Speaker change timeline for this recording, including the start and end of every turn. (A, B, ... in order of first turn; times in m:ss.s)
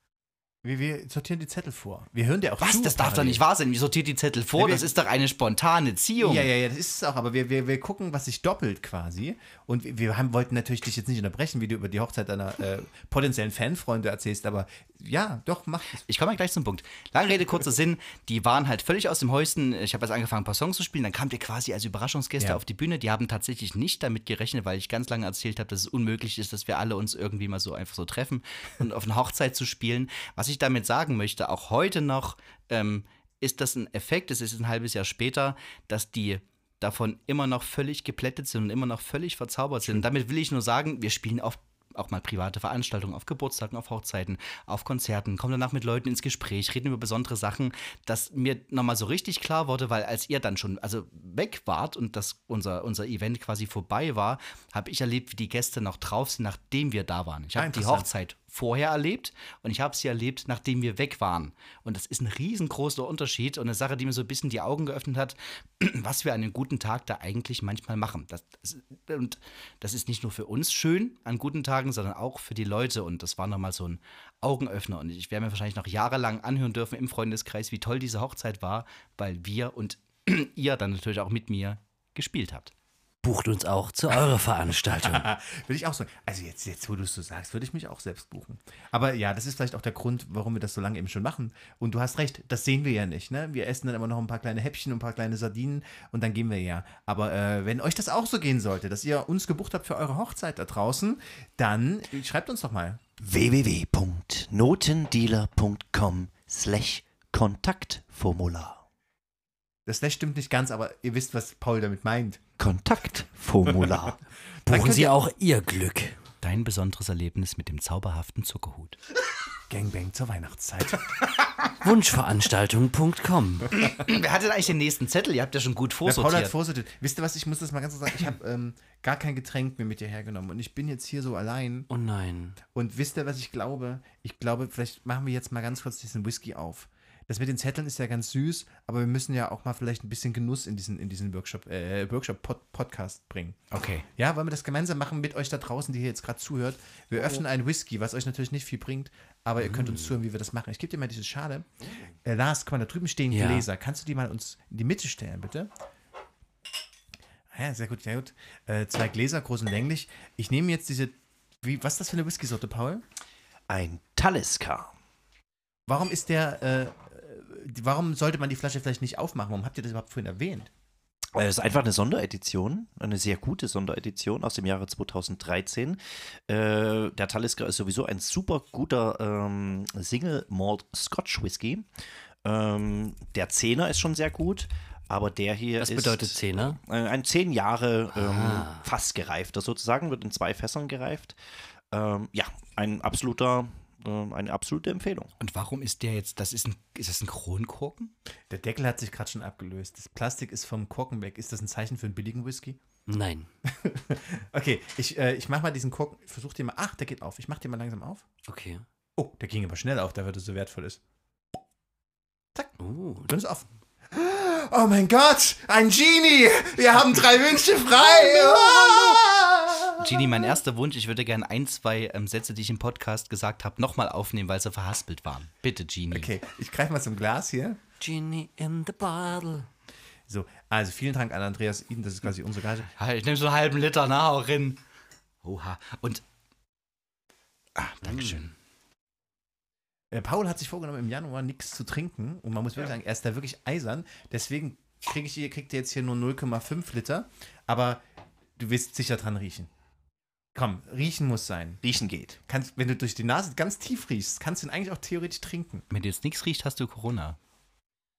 0:00.6-0:03.4 A
0:02.6-0:06.5 B
0:04.6-0:04.9 A
0:06.2-0:16.0 A
0:16.0-1:22.7 B
0:57.5-0:58.1 A
1:23.2-1:25.3 C
1:25.0-1:43.0 A
1:43.2-1:48.8 D
1:49.8-1:52.4 A
1:52.6-1:54.2 D
1:54.6-1:55.1 A
1:54.7-1:56.2 C
1:56.4-1:59.0 B
1:59.7-2:01.2 A
2:01.8-2:03.7 C
2:03.7-2:06.5 B
2:06.0-2:11.9 A
2:11.9-2:12.6 C
2:12.7-2:23.6 A
2:23.7-2:24.0 B
2:24.1-2:31.7 A
2:29.6-2:30.1 C
2:32.2-2:35.7 A
2:33.3-2:33.6 C
2:37.5-2:43.0 A
2:43.7-2:44.9 D
2:45.9-2:50.7 A
2:51.3-3:01.9 D
3:02.4-3:11.4 D
3:05.8-3:06.8 C
3:08.1-3:08.8 C
3:11.9-3:15.3 D
3:15.4-3:18.1 B
3:18.5-3:22.8 A
3:23.0-3:23.5 C
3:23.6-3:28.2 A
3:28.5-3:28.8 C
3:29.2-3:31.0 A
3:32.8-3:33.3 C
3:33.3-3:40.5 A
3:40.0-3:46.3 B
3:46.1-3:47.8 A
3:48.0-3:49.7 C
3:50.3-3:52.9 A
3:52.9-3:54.8 B
3:55.4-3:56.2 B
3:57.8-3:58.5 B
3:58.0-3:58.4 C
4:00.1-4:08.0 A
4:08.6-4:09.7 A
4:10.5-4:11.8 A
4:11.8-4:12.4 D
4:12.4-4:15.8 A
4:15.9-4:17.4 B